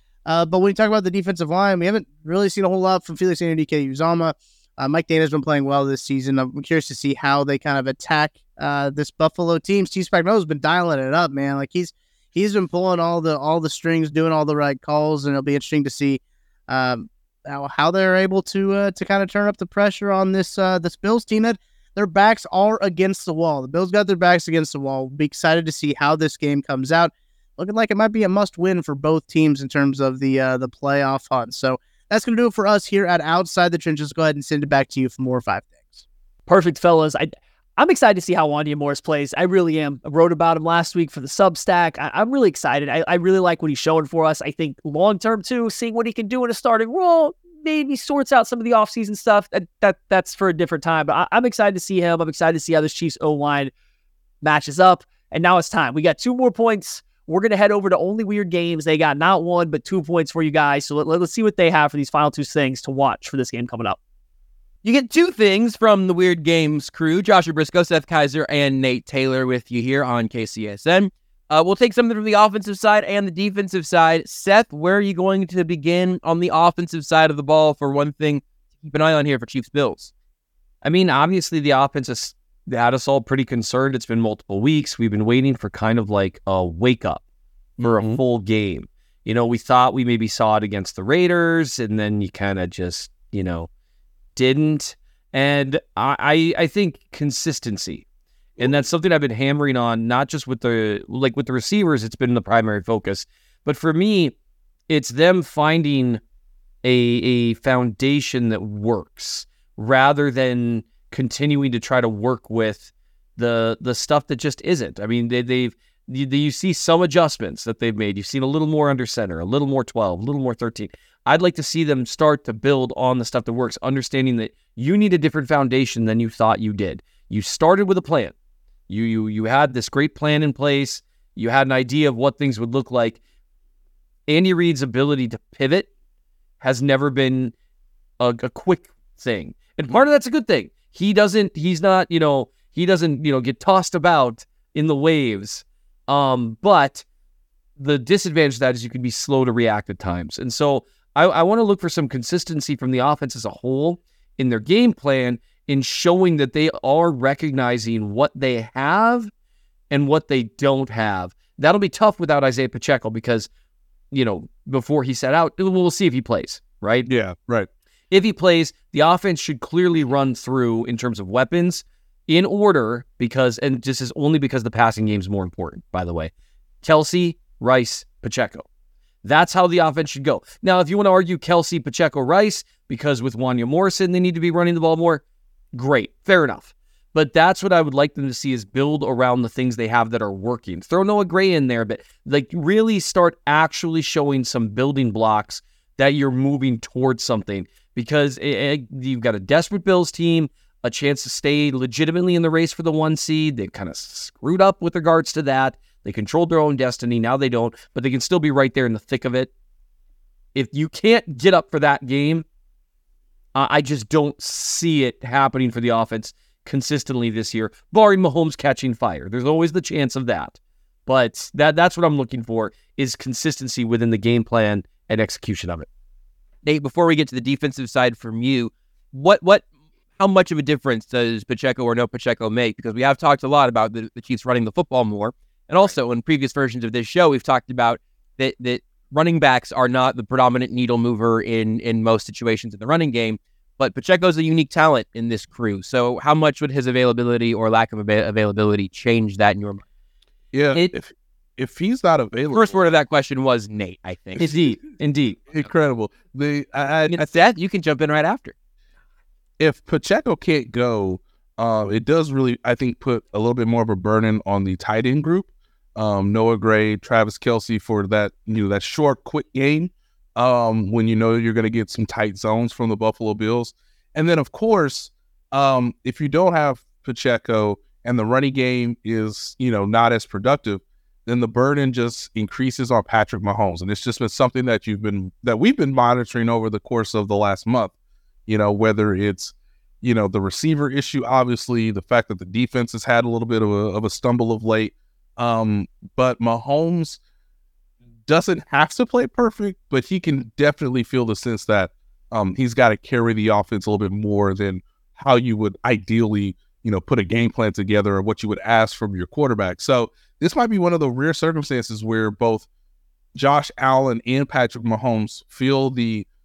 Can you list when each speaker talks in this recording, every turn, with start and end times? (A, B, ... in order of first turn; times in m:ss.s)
0:00.3-0:36.0 A
0:36.5-0:53.7 B
0:54.4-1:04.0 B
1:04.8-1:20.1 C
1:20.8-1:27.2 D
1:27.8-1:33.7 D
1:34.4-1:38.0 D
1:38.6-1:44.3 D
1:44.9-1:46.2 D
1:46.8-2:08.3 D
2:08.9-2:13.2 D
2:14.3-2:15.9 D
2:16.6-2:17.5 D
2:18.2-2:27.0 D
2:27.8-2:39.3 D
2:39.9-2:43.5 D
2:44.1-2:47.1 D
2:47.1-2:47.7 E
2:48.1-2:56.3 D
2:56.8-2:58.7 D
2:59.2-3:05.2 D
3:05.7-3:29.5 D
3:30.6-3:32.4 D
3:33.6-3:45.9 D
3:46.6-3:49.6 C
3:50.2-4:09.8 C
4:10.5-4:12.8 E
4:10.7-4:11.0 C
4:12.5-4:14.7 C
4:14.4-4:15.4 D
4:15.5-4:17.2 E
4:17.0-4:18.5 C
4:19.6-4:47.9 E
4:48.5-4:57.2 E
4:58.2-5:12.7 E
5:13.4-5:16.3 E